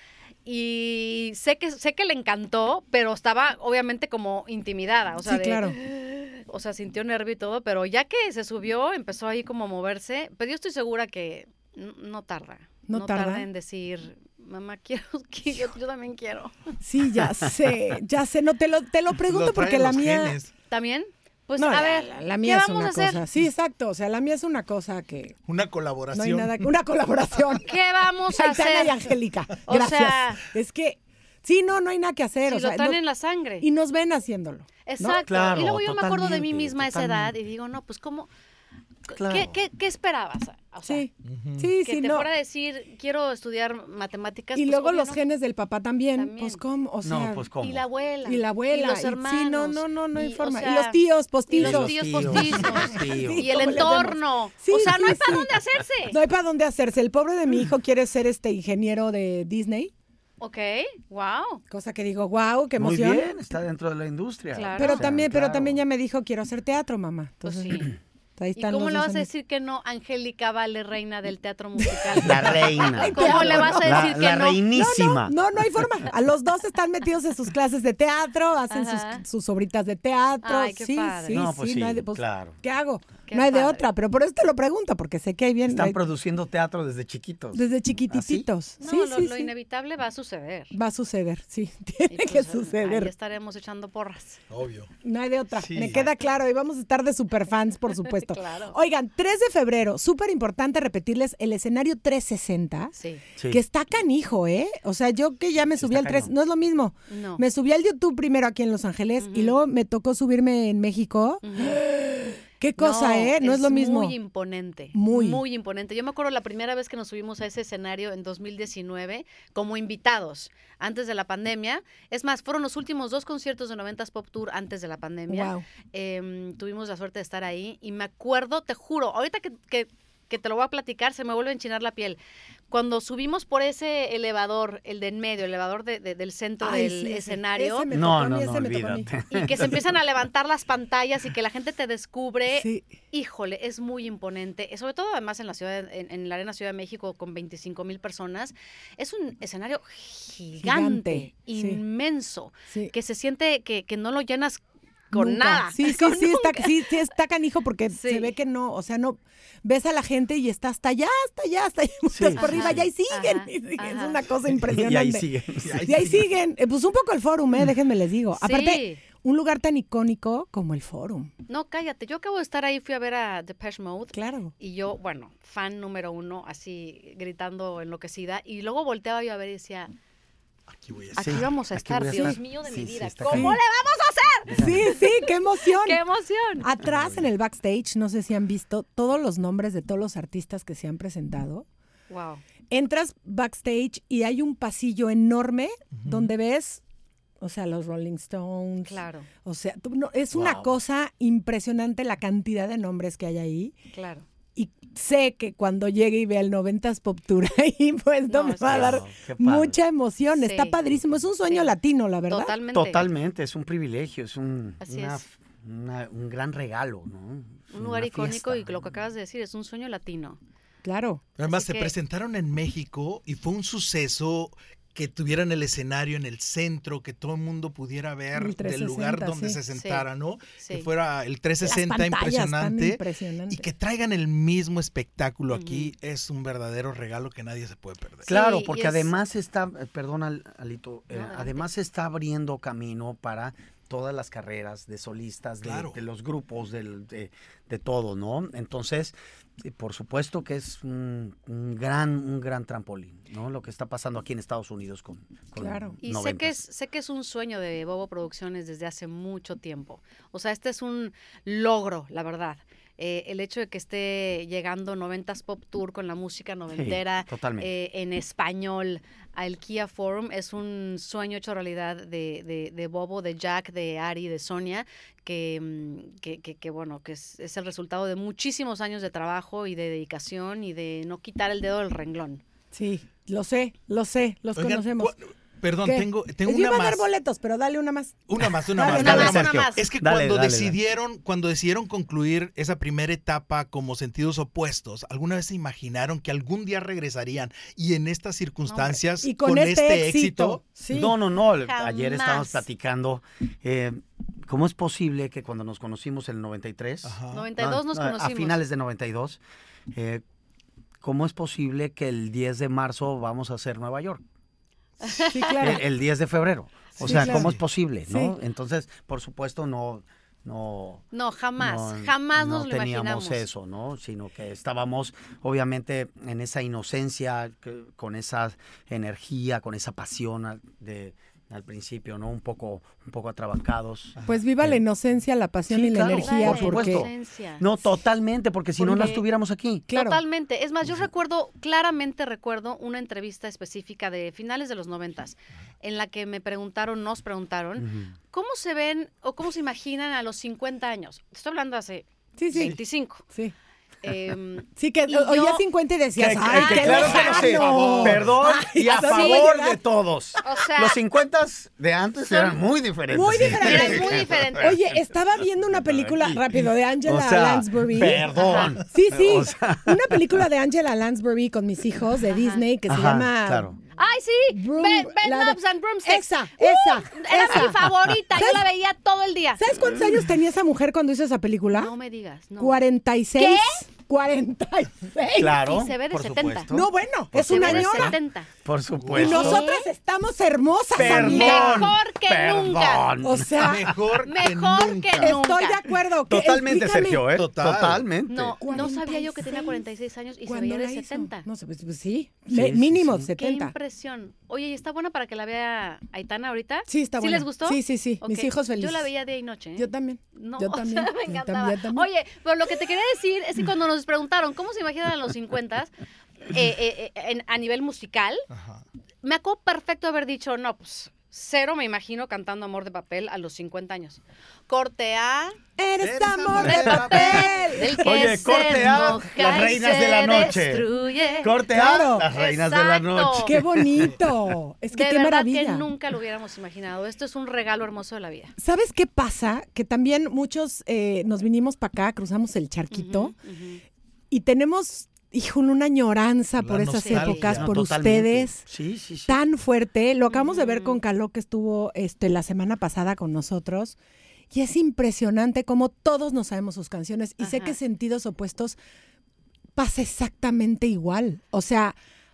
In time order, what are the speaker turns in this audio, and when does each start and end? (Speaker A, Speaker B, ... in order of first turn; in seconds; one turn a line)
Speaker A: 0.4-16.7
Speaker B: 5.2-5.8
Speaker B: 12.9-13.4
Speaker B: 16.8-20.4
Speaker C: 19.2-20.5
Speaker A: 20.7-23.2
Speaker B: 21.6-25.4
Speaker C: 25.4-26.7
Speaker B: 26.1-27.7
Speaker A: 27.6-29.0
Speaker B: 28.3-33.0
Speaker A: 29.7-30.4
Speaker A: 32.5-33.6
Speaker B: 33.6-35.2
Speaker A: 34.9-38.3
Speaker D: 35.2-37.3
Speaker A: 39.1-41.1
Speaker D: 39.1-39.6
Speaker B: 40.9-42.3
Speaker C: 41.2-41.7
Speaker A: 41.8-45.2
Speaker B: 44.5-47.4
Speaker A: 46.2-46.6
Speaker D: 47.0-47.8
Speaker A: 47.6-56.1
Speaker B: 48.2-55.5
Speaker D: 51.6-53.6
Speaker B: 56.1-59.9
Speaker A: 60.4-61.6
Speaker B: 61.7-63.3
Speaker D: 62.8-65.8
Speaker A: 64.5-65.0
Speaker B: 64.8-69.3
Speaker A: 67.4-67.9
Speaker A: 68.6-74.6
Speaker B: 71.8-74.2
Speaker D: 72.2-75.3
Speaker B: 74.7-86.0
Speaker A: 78.7-79.2
Speaker A: 80.4-81.5
Speaker D: 81.3-82.6
Speaker A: 83.3-83.8
Speaker D: 85.7-88.5
Speaker B: 87.5-89.5
Speaker A: 88.8-90.7
Speaker B: 90.7-93.1
Speaker A: 92.1-94.4
Speaker C: 94.5-94.9
Speaker B: 95.0-102.9
Speaker C: 95.6-96.0
Speaker A: 98.1-98.7
Speaker B: 103.5-114.1
Speaker D: 105.8-106.3
Speaker A: 107.1-107.4
Speaker A: 109.2-109.6
Speaker A: 111.4-111.8
Speaker A: 112.8-132.2
Speaker B: 114.9-115.4
Speaker B: 125.3-125.6
Speaker A: 132.7-137.9
Speaker B: 136.6-139.1
Speaker D: 137.9-139.9
Speaker A: 139.3-156.9
Speaker B: 142.5-142.9
Speaker B: 150.6-151.8
Speaker B: 155.1-165.3
Speaker A: 157.9-158.3
Speaker D: 162.1-162.9
Speaker A: 162.4-164.2
Speaker D: 164.5-165.9
Speaker C: 165.6-166.3
Speaker B: 165.8-171.3
Speaker A: 168.4-169.0
Speaker A: 171.5-179.9
Speaker B: 174.1-174.5
Speaker C: 180.7-181.5
Speaker A: 181.1-186.7
Speaker D: 181.2-183.6
Speaker B: 183.3-183.6
Speaker D: 184.5-184.9
Speaker B: 184.5-186.0
Speaker B: 186.6-191.7
Speaker D: 186.8-187.2
Speaker A: 192.1-192.4
Speaker B: 192.7-196.8
Speaker C: 195.9-196.3
Speaker B: 197.4-203.7
Speaker A: 198.8-199.3
Speaker D: 200.3-200.7
Speaker A: 203.9-204.2
Speaker B: 204.5-212.5
Speaker A: 208.3-209.0
Speaker D: 208.7-209.8
Speaker A: 210.4-210.8
Speaker A: 212.3-213.0
Speaker D: 212.7-219.0
Speaker A: 214.8-215.2
Speaker A: 217.7-220.4
Speaker B: 220.8-221.2
Speaker C: 221.4-238.3
Speaker A: 221.5-221.9
Speaker B: 228.3-229.6
Speaker A: 229.7-230.1
Speaker A: 230.6-230.9
Speaker B: 231.6-233.7
Speaker A: 235.5-235.9
Speaker D: 238.2-256.5
Speaker A: 238.3-239.1
Speaker A: 241.1-241.7
Speaker C: 245.6-246.0
Speaker B: 255.6-255.9
Speaker A: 256.0-282.4
Speaker D: 266.7-267.7
Speaker B: 282.7-285.1
Speaker C: 284.6-287.0
Speaker B: 285.8-289.3
Speaker C: 288.3-300.6
Speaker A: 288.8-289.8
Speaker D: 288.9-290.8
Speaker A: 298.6-299.0
Speaker B: 299.2-301.1
Speaker D: 300.9-309.4
Speaker A: 301.6-302.6
Speaker C: 307.0-307.5
Speaker A: 307.3-308.6
Speaker D: 309.9-310.2
Speaker D: 311.0-314.2
Speaker A: 315.0-315.7
Speaker B: 315.3-315.8
Speaker D: 315.6-321.0
Speaker C: 317.0-317.6
Speaker B: 317.0-317.5
Speaker B: 318.1-318.3
Speaker A: 321.1-323.4
Speaker D: 321.6-334.1
Speaker C: 334.1-334.7
Speaker B: 334.2-337.1
Speaker D: 335.7-339.9
Speaker A: 336.0-337.6
Speaker B: 338.8-339.2
Speaker A: 338.9-339.2
Speaker B: 339.9-340.2
Speaker A: 339.9-353.2
Speaker D: 347.8-348.1
Speaker B: 352.4-352.8
Speaker A: 354.0-355.6
Speaker B: 354.8-359.8
Speaker D: 356.1-364.8
Speaker A: 356.4-357.9
Speaker C: 356.6-358.3
Speaker A: 359.0-359.5
Speaker A: 360.4-361.0
Speaker A: 362.2-362.6
Speaker B: 363.1-368.3
Speaker C: 363.3-363.8
Speaker A: 363.6-364.8
Speaker D: 365.7-370.3
Speaker A: 368.3-368.8
Speaker B: 368.8-373.7
Speaker A: 372.3-372.6
Speaker D: 372.9-373.8
Speaker A: 373.9-379.6
Speaker B: 374.5-377.8
Speaker D: 377.6-378.2
Speaker B: 378.3-378.6
Speaker B: 379.6-381.9
Speaker D: 379.7-380.2
Speaker A: 381.7-382.8
Speaker B: 382.6-385.8
Speaker A: 383.3-383.8
Speaker D: 385.3-389.7
Speaker A: 385.6-386.7
Speaker B: 386.7-388.2
Speaker A: 387.4-388.5
Speaker C: 389.0-389.4
Speaker B: 389.1-391.9
Speaker A: 389.1-389.9
Speaker D: 390.9-394.1
Speaker A: 391.0-393.1
Speaker B: 393.2-393.9
Speaker C: 393.6-395.3
Speaker A: 394.2-395.8
Speaker B: 395.2-397.3
Speaker D: 396.3-398.9
Speaker C: 397.3-398.1
Speaker A: 398.3-401.4
Speaker B: 398.6-399.8
Speaker B: 400.4-403.7
Speaker D: 402.5-403.3
Speaker A: 403.4-415.9
Speaker B: 406.9-409.1
Speaker B: 409.8-412.1
Speaker A: 416.5-418.4
Speaker C: 418.5-418.8
Speaker A: 419.2-425.6
Speaker B: 425.8-429.1
Speaker C: 426.0-427.7
Speaker A: 426.6-433.6
Speaker D: 426.8-427.3
Speaker D: 428.0-430.9
Speaker D: 431.4-434.3
Speaker B: 431.7-432.3
Speaker B: 433.4-435.9
Speaker A: 434.9-438.5
Speaker B: 438.6-443.3
Speaker A: 442.9-443.8
Speaker B: 444.3-448.6
Speaker C: 446.6-447.9
Speaker A: 447.0-447.5
Speaker D: 447.5-449.4
Speaker B: 449.3-453.9
Speaker A: 450.3-451.0
Speaker B: 454.5-458.8
Speaker A: 457.4-457.8
Speaker B: 459.8-461.9